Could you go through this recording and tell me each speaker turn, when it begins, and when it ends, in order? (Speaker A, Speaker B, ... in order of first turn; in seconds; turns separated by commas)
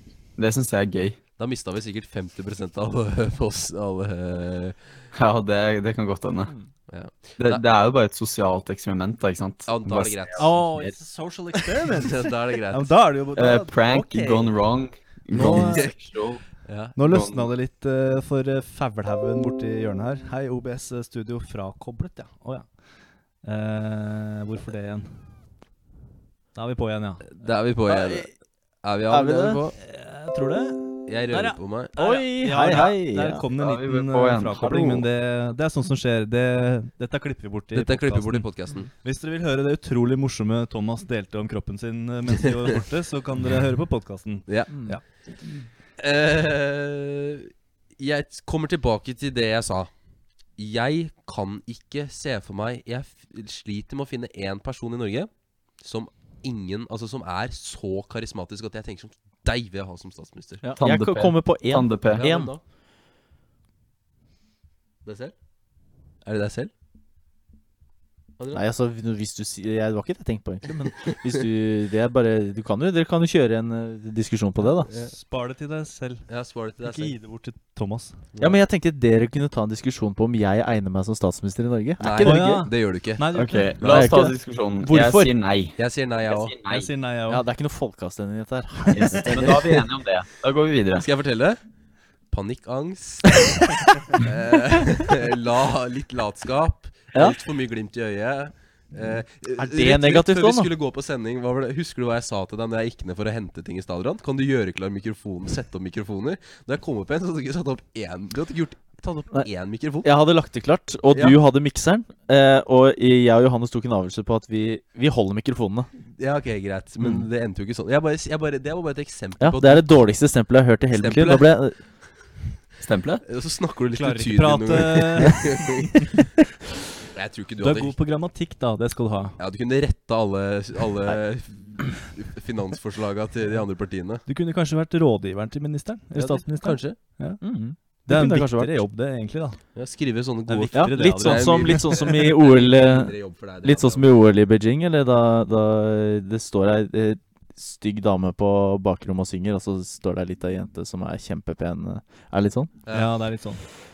Speaker A: 0.4-1.2, Speaker B: 1.4-4.8, Speaker A: 5.1-6.5, Speaker B: 6.9-7.6, Speaker A: 7.4-10.6, Speaker B: 9.7-10.6, Speaker C: 10.4-14.5, Speaker D: 10.4-10.9, Speaker B: 11.6-12.9, Speaker A: 13.3-16.4, Speaker C: 15.3-15.9, Speaker B: 15.4-15.9, Speaker B: 16.6-16.9, Speaker C: 16.9-22.7, Speaker A: 17.0-17.5, Speaker C: 23.4-25.2, Speaker C: 26.5-27.3, Speaker B: 27.3-28.3, Speaker D: 27.9-28.3, Speaker B: 28.8-29.8, Speaker D: 29.1-29.6, Speaker C: 29.8-45.6, Speaker B: 31.1-31.9, Speaker D: 31.9-33.4, Speaker A: 33.6-35.1, Speaker B: 37.7-38.9, Speaker B: 42.3-42.8, Speaker D: 44.7-45.0, Speaker B: 46.0-49.9, Speaker B: 50.6-55.3, Speaker B: 55.8-60.6, Speaker D: 60.6-62.5, Speaker A: 60.8-62.2, Speaker B: 62.1-62.6, Speaker B: 65.0-65.3, Speaker B: 66.2-66.7, Speaker D: 68.5-74.9, Speaker B: 74.9-75.1, Speaker C: 75.0-76.2, Speaker B: 76.3-77.1, Speaker C: 76.8-78.2, Speaker B: 78.3-78.6, Speaker D: 78.4-82.7, Speaker B: 82.0-83.3, Speaker C: 82.2-83.8, Speaker A: 83.3-85.8, Speaker D: 83.8-85.3, Speaker B: 85.8-86.5, Speaker A: 86.3-86.9, Speaker C: 86.7-87.4, Speaker D: 87.3-89.8, Speaker A: 88.9-91.1, Speaker C: 89.3-89.8, Speaker B: 91.0-91.6, Speaker B: 92.3-110.1, Speaker D: 99.6-100.7, Speaker D: 110.0-115.9, Speaker B: 111.1-111.4, Speaker B: 116.2-119.9, Speaker D: 119.4-121.8, Speaker B: 120.9-121.5, Speaker A: 122.8-123.2, Speaker B: 123.2-126.2, Speaker C: 123.9-125.7, Speaker B: 127.1-127.9, Speaker C: 127.6-129.4, Speaker B: 129.4-134.2, Speaker C: 134.2-137.4, Speaker B: 136.1-137.0, Speaker D: 137.4-138.8, Speaker C: 138.1-139.6, Speaker B: 139.7-144.1, Speaker C: 140.5-142.2, Speaker D: 140.7-152.7, Speaker B: 152.8-153.1, Speaker C: 152.9-153.7